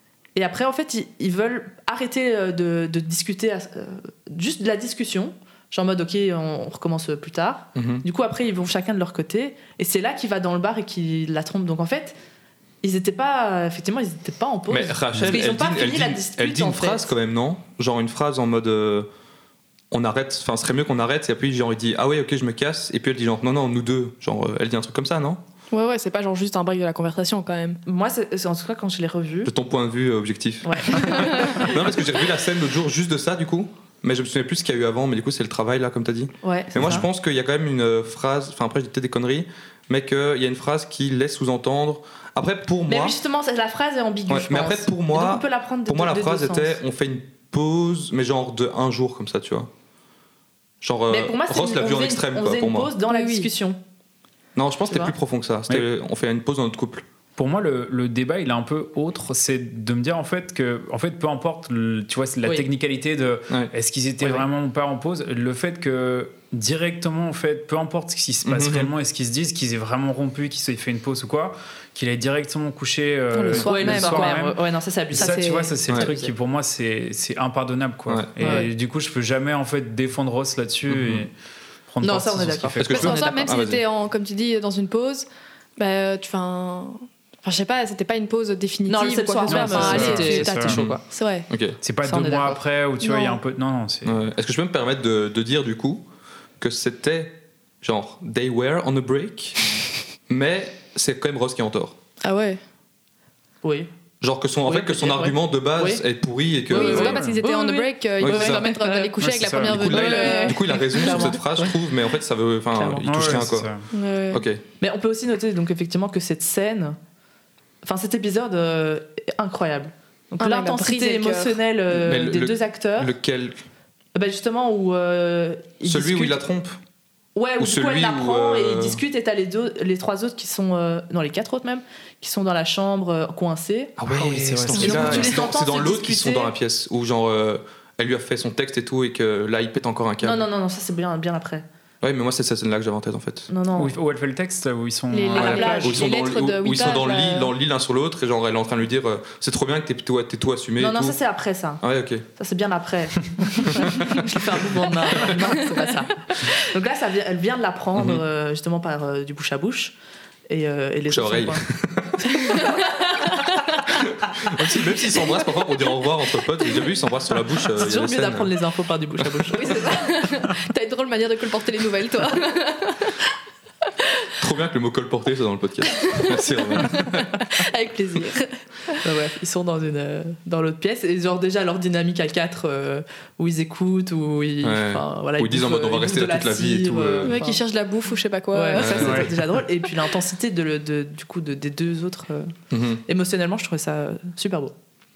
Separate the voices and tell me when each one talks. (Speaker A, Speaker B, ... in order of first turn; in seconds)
Speaker A: 0.3-12.2, 12.8-17.1, 27.9-29.5, 30.6-31.8, 36.4-37.0, 42.9-46.8, 51.1-53.8, 54.9-55.1, 73.5-76.3, 78.4-78.7, 82.0-83.3, 88.9-91.0, 92.0-92.6, 103.6-103.9, 104.6-106.0, 106.7-109.2, 109.8-111.8, 112.7-113.4, 114.8-117.0, 117.8-123.1, 124.1-126.4, 127.3-133.9, 134.7-136.5, 140.2-141.7, 143.5-143.9, 145.3-146.1, 150.8-151.8, 152.3-159.9, 160.5-161.7, 162.2-163.6, 167.7-170.1, 179.0-187.6, 188.5-192.5, 193.1-194.7
Speaker B: 7.7-8.0, 14.7-19.1, 19.9-25.4, 29.4-43.2, 44.3-49.7, 50.8-52.9, 54.5-57.0, 68.4-68.9, 80.9-81.3, 82.8-83.8, 90.7-91.0, 91.5-91.8, 94.0-96.0, 96.6-99.6, 100.3-102.0, 104.2-107.2, 108.2-108.7, 109.6-113.7, 114.3-114.6, 121.9-123.6, 125.8-126.8, 127.6-129.0, 134.0-140.4, 142.0-143.5, 145.3-151.2, 151.8-152.2, 153.7-154.4, 157.9-158.2, 161.1-162.6, 164.0-168.5, 169.2-169.5, 174.4-177.3, 184.6-187.3, 188.7-189.3, 192.7-193.0
Speaker C: 25.7-27.8, 53.1-53.5, 73.3-74.4, 75.2-75.5, 82.9-91.5, 93.0-93.4, 102.2-102.6, 106.7-111.3, 113.9-114.4, 120.4-121.5, 145.1-147.5, 162.4-163.7, 169.5-173.2, 175.9-179.0, 187.2-189.3
Speaker D: 57.4-74.6, 75.1-81.3, 81.9-83.2, 89.5-90.8, 91.8-94.2, 107.0-107.4, 109.2-110.1, 113.0-113.9, 134.1-135.4, 143.8-146.0, 188.9-189.3